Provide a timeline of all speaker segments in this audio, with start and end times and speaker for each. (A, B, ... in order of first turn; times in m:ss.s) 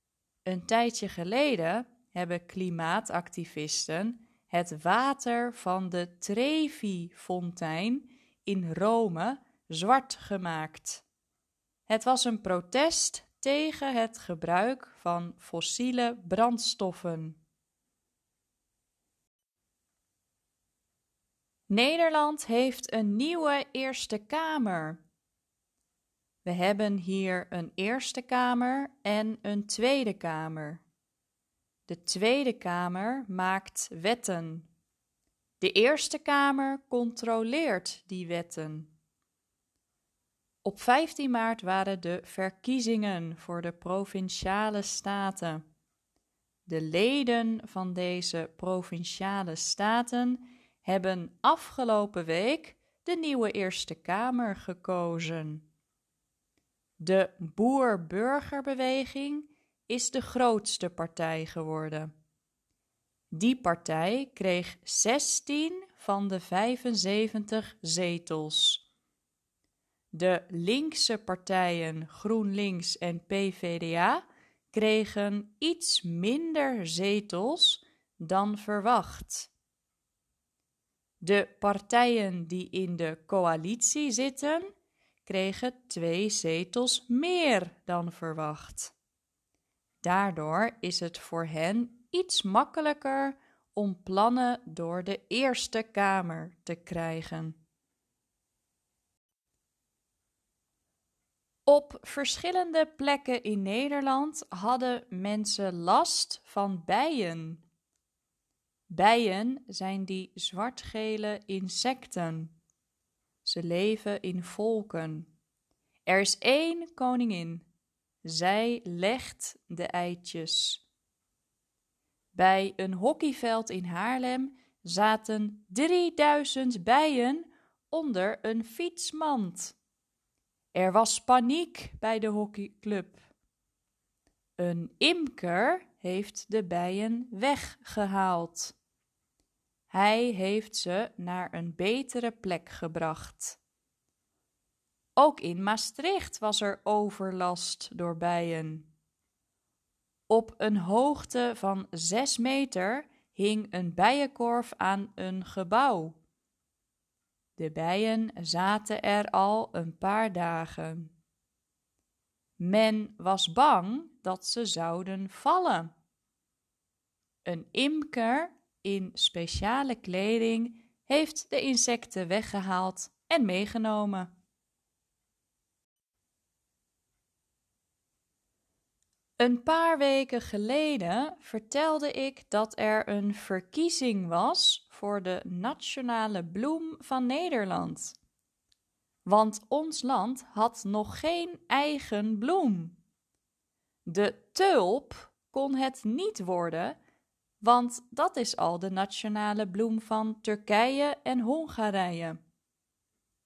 0:00.4-0:11.0 A
0:11.9-0:17.4 A
0:21.7-0:25.0 A
0:26.4-0:30.8 A
0:31.9-0:34.7 A
0:35.6-0:38.9 A
0:40.6-0:45.6 A
0:46.7-0:55.6 A
0:57.0-1:02.1 A
1:03.3-1:08.8 A
1:10.1-1:19.5 A
1:21.2-1:24.7 A
1:25.3-1:28.9 A
1:30.0-1:37.6 A
1:41.7-1:47.6 A
1:48.9-1:52.5 A
1:53.4-1:55.3 A
1:56.1-1:57.6 A
1:58.2-2:00.8 A
2:02.3-2:09.8 A
2:10.7-2:13.2 A
2:14.6-2:18.8 A
2:19.9-2:23.6 A
2:25.2-2:28.9 A
2:30.3-2:36.2 A
2:37.6-2:41.1 A
2:42.6-2:45.9 A
2:47.4-2:54.3 A
2:59.4-3:08.2 A
3:09.3-3:13.0 A
3:14.1-3:17.0 A
3:17.6-3:22.4 A